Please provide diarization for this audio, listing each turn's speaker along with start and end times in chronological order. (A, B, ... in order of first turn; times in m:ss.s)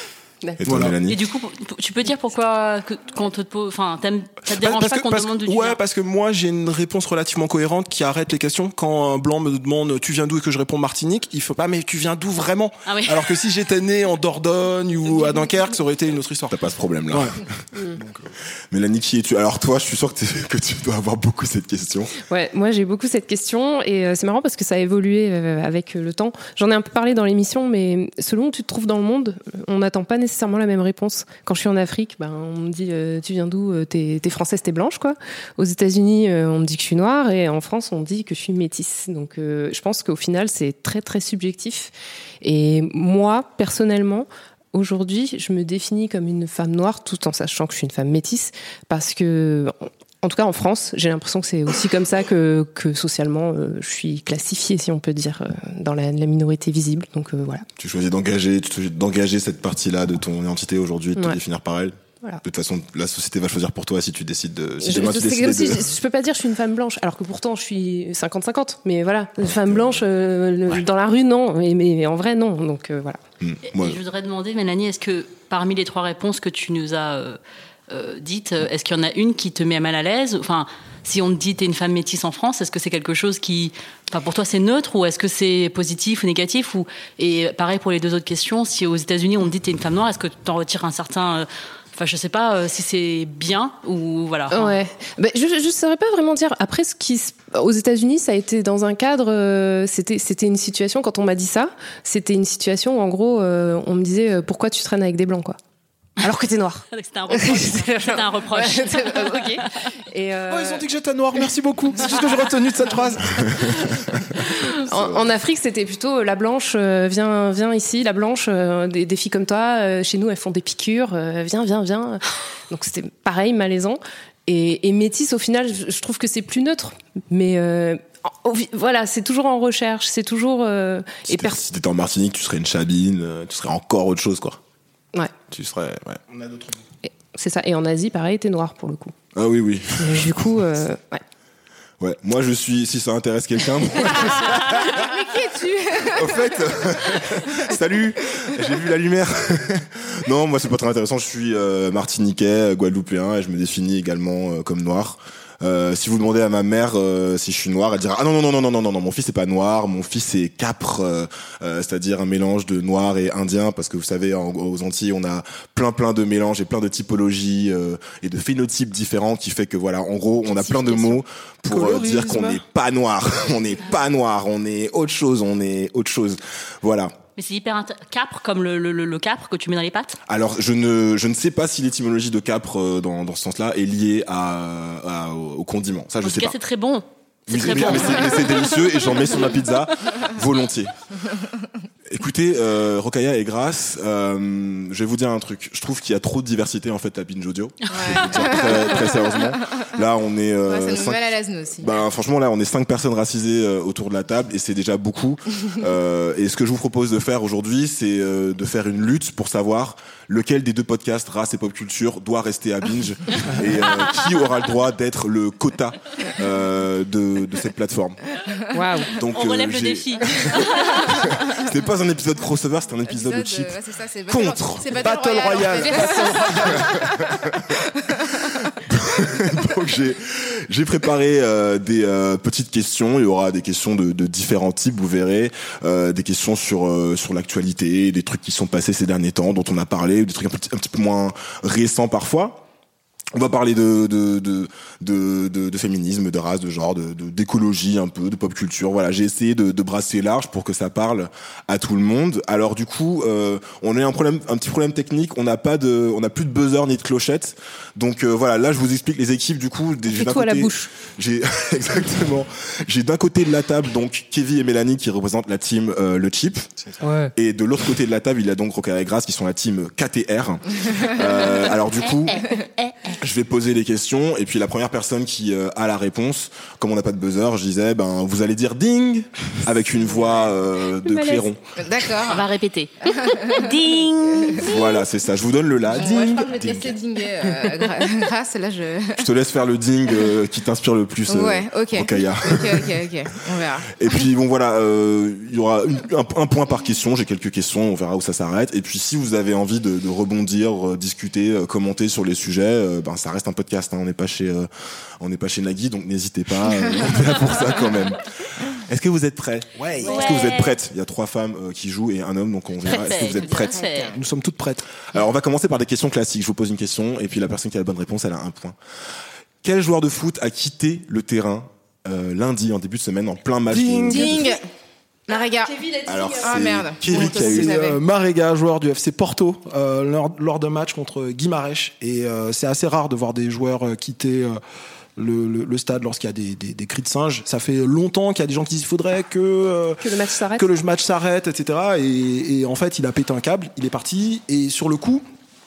0:00.6-0:01.2 A
0:00.6-0:01.0 B
0:01.1-0:05.8 C
0:04.5-0:16.6 B
0:12.9-0:13.4 C
0:16.5-0:17.4 A
0:17.1-0:18.3 B
0:18.7-0:22.1 A
0:22.3-0:57.7 D
0:57.8-1:05.9 A
1:04.8-1:13.2 D
1:09.6-1:10.0 A
1:13.4-1:14.0 A
1:13.7-1:34.7 C
1:34.5-1:45.6 D
1:46.2-1:50.9 D
1:46.9-1:49.7 C
1:50.5-1:54.2 B
1:53.4-2:11.6 D
2:11.3-2:14.6 A
2:15.5-2:16.2 A
2:16.3-2:16.8 B
2:17.0-2:19.1 D
2:19.4-2:20.6 A
2:20.0-2:21.2 D
2:22.0-2:25.1 A
2:24.7-2:26.6 E
2:26.0-2:57.2 A
2:50.5-2:51.0 E
2:57.4-3:00.2 C
3:00.3-3:06.6 A
3:06.2-3:09.7 C
3:07.5-3:10.9 A
3:07.6-3:08.1 B
3:12.1-3:38.2 A
3:17.9-3:18.3 C
3:17.9-3:19.5 E
3:20.7-3:21.9 E
3:38.7-3:39.1 D
3:39.1-3:43.7 A
3:39.2-3:41.4 C
3:43.1-3:48.6 E
3:44.3-3:45.0 A
3:44.9-3:47.0 B
3:48.6-4:02.6 A
4:03.3-4:26.7 A
4:20.1-4:20.9 D
4:27.0-4:27.3 B
4:27.3-4:32.4 A
4:32.0-4:33.2 C
4:33.2-4:41.7 A
4:41.0-4:41.4 D
4:41.8-4:42.4 E
4:42.3-4:44.8 C
4:43.0-4:44.6 E
4:44.6-4:47.0 A
4:46.0-4:49.3 E
4:49.2-4:52.9 A
4:51.3-4:54.0 E
4:54.0-5:04.7 A
5:05.2-5:13.8 A
5:09.8-5:10.3 B
5:10.0-5:10.8 C
5:12.8-5:14.2 C
5:13.0-5:14.2 E
5:14.1-5:14.8 B
5:15.1-5:18.8 A
5:19.6-5:24.5 A
5:23.7-5:24.5 B
5:24.1-5:24.6 E
5:25.3-5:25.8 E
5:25.3-5:26.7 D
5:26.1-5:27.8 A
5:26.4-5:28.0 E
5:27.1-5:34.6 B
5:35.2-5:45.2 B
5:40.0-5:40.7 D